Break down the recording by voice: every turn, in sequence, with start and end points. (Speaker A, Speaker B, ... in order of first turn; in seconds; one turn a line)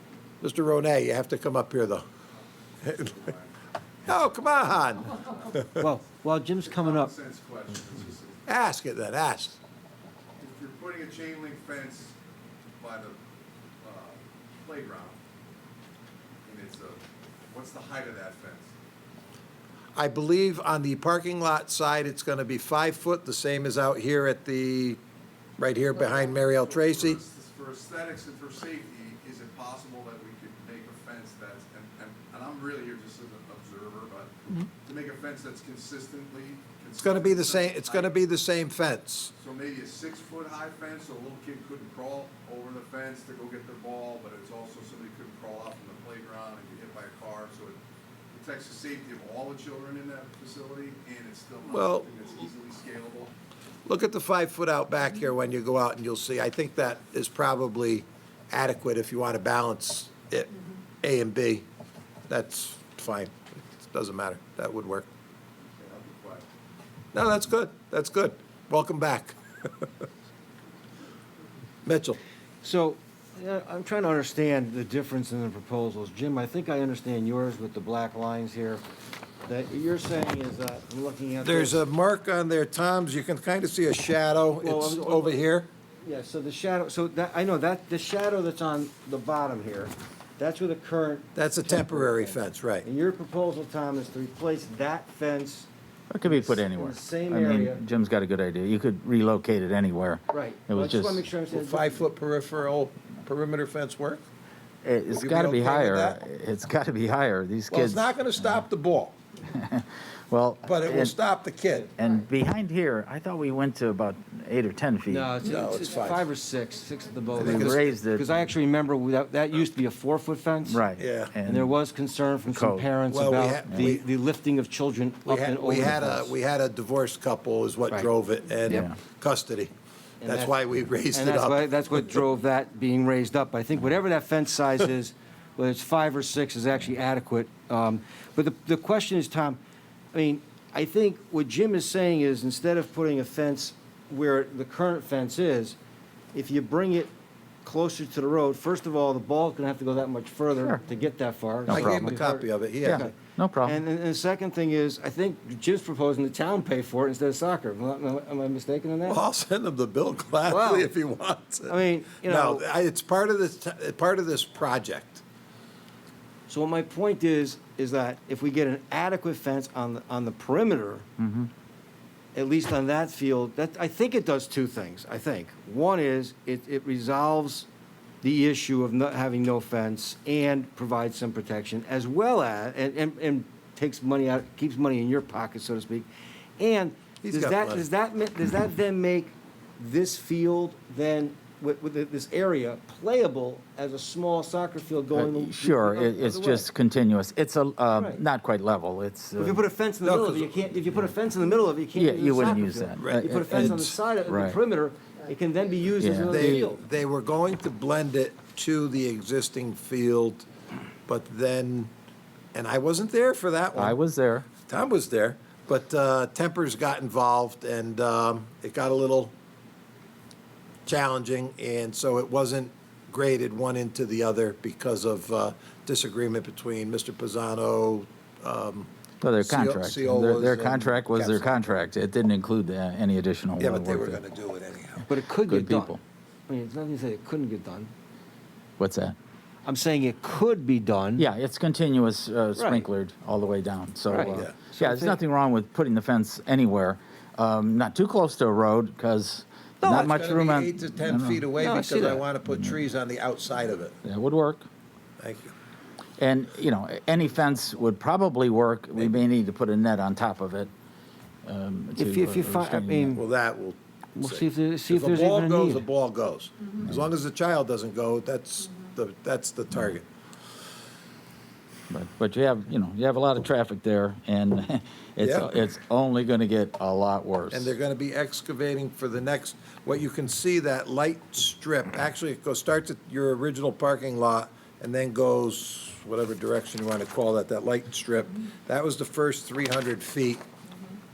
Speaker A: 0.4-2.0
Speaker B: 2.8-3.5
Speaker A: 4.1-5.8
Speaker C: 5.8-7.1
Speaker B: 6.7-8.4
Speaker A: 8.5-9.6
Speaker B: 10.4-12.2
Speaker B: 12.8-13.2
Speaker B: 13.8-15.2
Speaker B: 16.5-18.7
Speaker A: 20.0-25.0
Speaker A: 25.6-27.2
Speaker B: 26.1-38.2
Speaker A: 37.0-39.3
Speaker B: 39.4-47.8
Speaker B: 48.3-53.3
Speaker A: 51.7-52.1
Speaker A: 53.9-61.6
Speaker A: 62.3-65.1
Speaker B: 65.8-66.5
Speaker A: 67.1-69.8
Speaker A: 71.8-72.2
Speaker C: 72.6-78.8
Speaker C: 79.5-81.8
Speaker A: 81.4-85.7
Speaker C: 84.6-85.4
Speaker C: 86.0-95.7
Speaker A: 91.3-92.9
Speaker D: 96.1-101.2
Speaker C: 96.2-97.8
Speaker C: 100.3-102.0
Speaker A: 101.5-104.2
Speaker D: 104.8-108.6
Speaker A: 105.1-106.2
Speaker A: 107.7-109.2
Speaker D: 109.5-111.2
Speaker A: 110.7-111.9
Speaker D: 112.0-115.3
Speaker C: 115.1-120.9
Speaker A: 115.4-116.2
Speaker D: 117.4-118.3
Speaker A: 117.4-117.9
Speaker D: 120.7-121.7
Speaker A: 121.0-121.3
Speaker C: 121.5-126.3
Speaker D: 122.5-122.9
Speaker A: 123.1-124.0
Speaker A: 125.3-129.7
Speaker D: 128.7-128.9
Speaker C: 130.2-130.6
Speaker A: 130.3-132.1
Speaker C: 131.1-139.6
Speaker C: 140.1-145.8
Speaker C: 146.3-147.1
Speaker C: 147.6-159.2
Speaker D: 150.6-150.8
Speaker A: 151.7-153.1
Speaker D: 151.7-152.1
Speaker D: 152.8-153.8
Speaker A: 159.1-165.2
Speaker C: 160.5-160.9
Speaker C: 161.7-162.7
Speaker C: 166.5-171.1
Speaker D: 171.2-171.5
Speaker C: 172.3-177.7
Speaker C: 178.2-186.1
Speaker C: 186.6-196.7
Speaker A: 187.2-187.9
Speaker D: 195.1-199.6
Speaker C: 198.0-198.2
Speaker C: 199.4-206.8
Speaker A: 200.0-200.7
Speaker D: 201.9-204.6
Speaker A: 203.0-203.9
Speaker D: 206.0-206.6
Speaker A: 206.3-210.4
Speaker A: 211.1-211.9
Speaker A: 212.5-214.0
Speaker D: 213.8-214.5
Speaker A: 214.6-219.3
Speaker A: 220.9-231.6
Speaker D: 229.2-234.2
Speaker A: 233.6-235.1
Speaker C: 235.1-235.9
Speaker D: 235.5-236.0
Speaker C: 236.5-237.9
Speaker D: 238.8-239.2
Speaker C: 239.7-241.3
Speaker D: 241.2-251.5
Speaker C: 242.6-242.9
Speaker C: 244.1-245.2
Speaker A: 249.8-254.0
Speaker C: 251.6-252.2
Speaker D: 254.0-254.7
Speaker A: 255.2-255.5
Speaker D: 256.2-260.7
Speaker D: 261.4-263.2
Speaker C: 262.0-263.2
Speaker A: 263.1-270.1
Speaker C: 264.2-265.9
Speaker D: 271.9-277.7
Speaker A: 275.2-275.5
Speaker A: 277.5-290.4